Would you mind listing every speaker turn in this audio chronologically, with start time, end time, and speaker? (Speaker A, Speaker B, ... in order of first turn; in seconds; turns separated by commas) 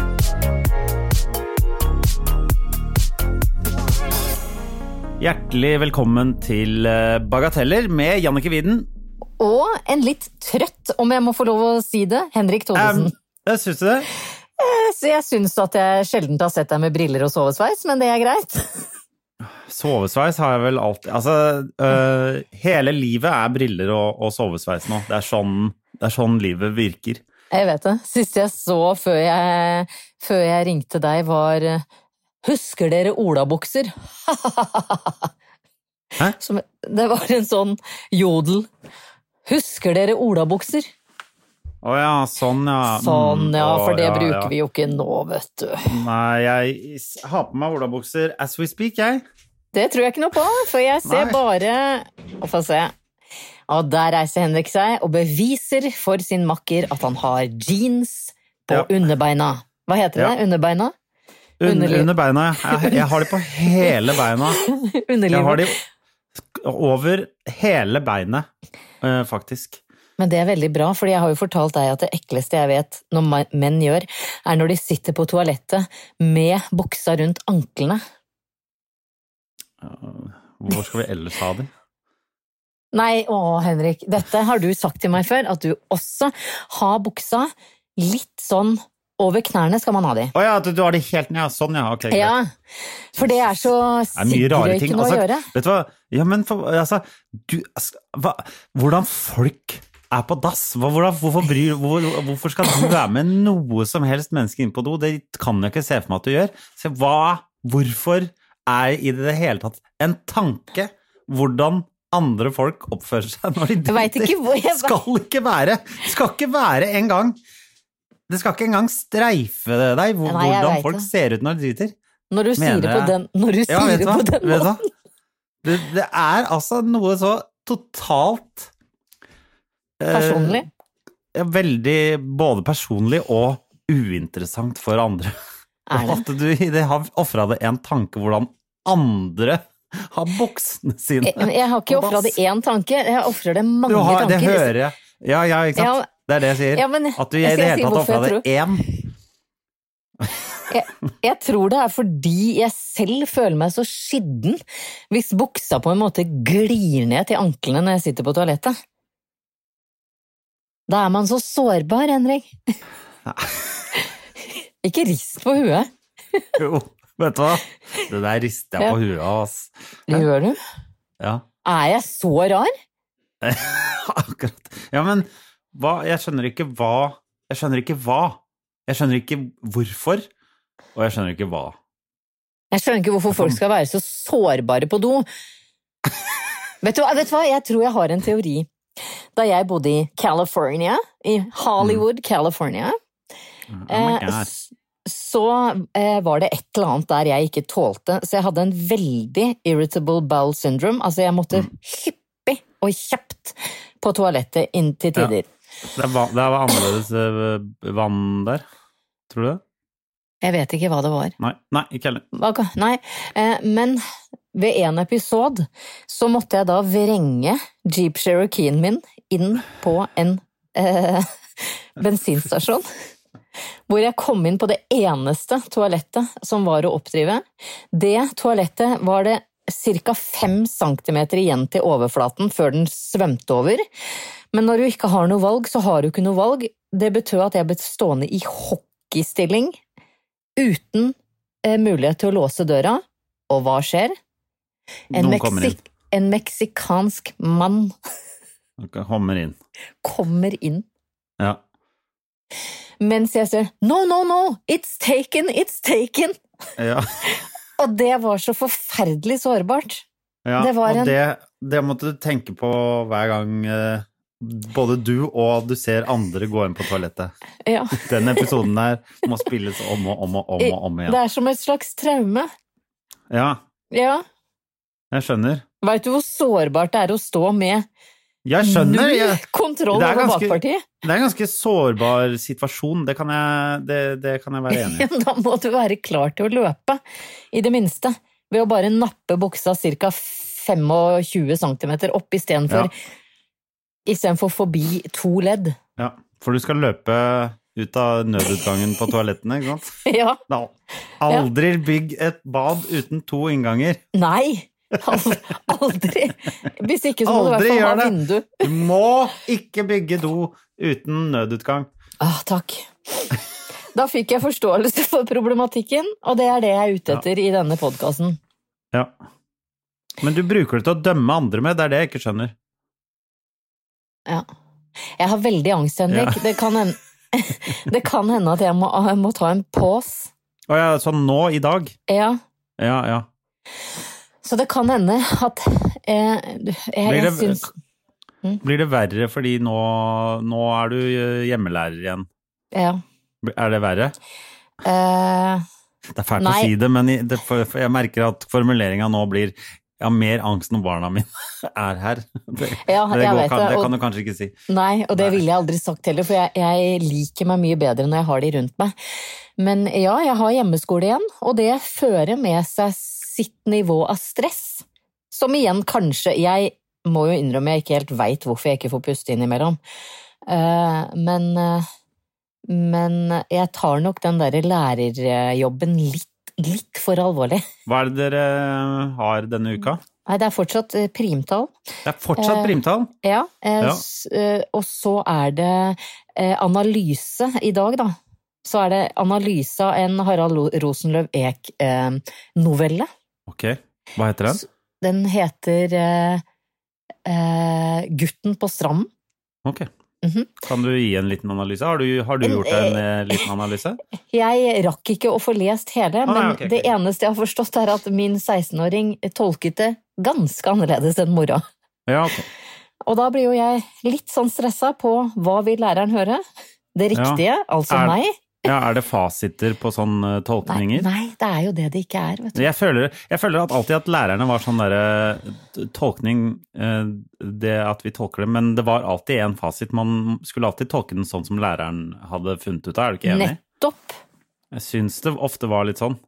Speaker A: 5.2-8.9, Speaker B: 9.4-13.1, Speaker A: 12.8-14.1, Speaker B: 14.6-18.9, Speaker A: 19.6-27.2, Speaker B: 27.5-31.8, Speaker B: 32.4-35.3, Speaker B: 36.4-38.7, Speaker B: 39.5-40.9, Speaker A: 41.8-44.5, Speaker B: 42.9-45.9, Speaker A: 45.9-49.2, Speaker B: 49.7-52.9, Speaker A: 51.1-51.4, Speaker B: 53.7-60.9, Speaker A: 61.6-64.6, Speaker B: 61.6-62.1, Speaker B: 62.7-63.9, Speaker B: 64.5-65.6, Speaker A: 65.3-65.8, Speaker A: 66.5-68.5, Speaker A: 69.0-69.8, Speaker B: 70.2-78.0, Speaker A: 79.8-81.7, Speaker B: 82.9-90.3, Speaker A: 90.3-92.3, Speaker B: 92.1-92.5, Speaker B: 93.1-95.5, Speaker A: 94.2-117.4, Speaker B: 113.9-115.0, Speaker A: 118.3-121.9, Speaker B: 120.3-121.1, Speaker B: 122.3-124.8, Speaker A: 122.6-123.2, Speaker A: 123.7-124.8, Speaker A: 125.6-128.7, Speaker A: 130.0-130.7, Speaker B: 130.1-130.7, Speaker A: 131.3-135.3, Speaker B: 135.9-136.2, Speaker A: 135.9-142.4, Speaker B: 141.2-144.7, Speaker A: 143.9-148.9, Speaker B: 145.8-146.1, Speaker B: 146.7-148.5, Speaker B: 150.7-158.7, Speaker B: 160.9-162.6, Speaker A: 163.3-163.6, Speaker B: 164.8-165.9, Speaker A: 166.6-170.3, Speaker B: 170.1-170.6, Speaker B: 171.7-172.7, Speaker A: 173.4-180.3, Speaker A: 180.9-181.8, Speaker B: 182.7-185.3, Speaker A: 183.3-183.6, Speaker B: 186.8-188.7, Speaker B: 189.4-192.9, Speaker A: 193.7-194.5, Speaker B: 193.9-205.5, Speaker A: 205.9-208.6, Speaker A: 209.3-209.6, Speaker B: 210.4-211.3, Speaker A: 211.4-212.2, Speaker B: 212.3-214.0, Speaker B: 214.5-222.9, Speaker B: 223.9-233.8, Speaker B: 234.5-239.8, Speaker B: 240.6-244.1, Speaker A: 245.1-245.8, Speaker B: 245.1-247.9, Speaker A: 248.8-249.6, Speaker B: 250.0-250.9, Speaker B: 253.0-256.4, Speaker A: 256.8-257.1, Speaker B: 257.3-260.0, Speaker A: 260.5-267.3, Speaker B: 260.6-261.1, Speaker B: 267.6-268.5, Speaker A: 267.9-271.2, Speaker B: 270.6-272.5, Speaker A: 273.3-273.6, Speaker B: 273.9-274.2, Speaker A: 275.1-275.6, Speaker B: 275.8-277.9, Speaker A: 278.4-285.1, Speaker B: 278.6-280.9, Speaker B: 284.7-287.0, Speaker B: 287.5-292.9, Speaker B: 294.1-295.8, Speaker A: 296.0-304.0, Speaker B: 300.1-300.4, Speaker B: 304.1-308.7, Speaker A: 307.2-311.9, Speaker B: 312.2-313.3, Speaker B: 313.9-318.4, Speaker A: 320.2-322.5, Speaker B: 325.2-330.3, Speaker A: 326.1-326.4, Speaker A: 330.7-332.0, Speaker B: 332.1-332.4, Speaker A: 332.8-333.3, Speaker B: 334.4-337.6, Speaker A: 337.1-337.7, Speaker A: 338.6-342.3, Speaker B: 342.7-343.0, Speaker A: 343.4-344.2, Speaker B: 344.8-345.6, Speaker A: 346.1-354.6, Speaker B: 346.4-346.7, Speaker B: 352.8-353.9, Speaker B: 354.7-358.9, Speaker A: 355.1-355.4, Speaker B: 359.6-369.8, Speaker B: 370.5-371.9, Speaker B: 372.7-377.6, Speaker A: 377.9-380.0, Speaker B: 380.3-381.7, Speaker A: 382.1-383.1, Speaker B: 382.4-393.1, Speaker A: 393.5-394.6, Speaker B: 394.5-396.4, Speaker B: 397.3-399.1, Speaker B: 400.2-400.5, Speaker A: 400.6-404.0, Speaker B: 402.4-403.5, Speaker B: 404.3-411.6, Speaker A: 406.3-406.9, Speaker A: 412.1-412.5, Speaker B: 413.0-416.4, Speaker B: 417.0-418.3, Speaker A: 417.1-421.1, Speaker B: 420.7-422.7, Speaker A: 422.6-433.6, Speaker B: 433.2-434.2, Speaker A: 434.7-436.2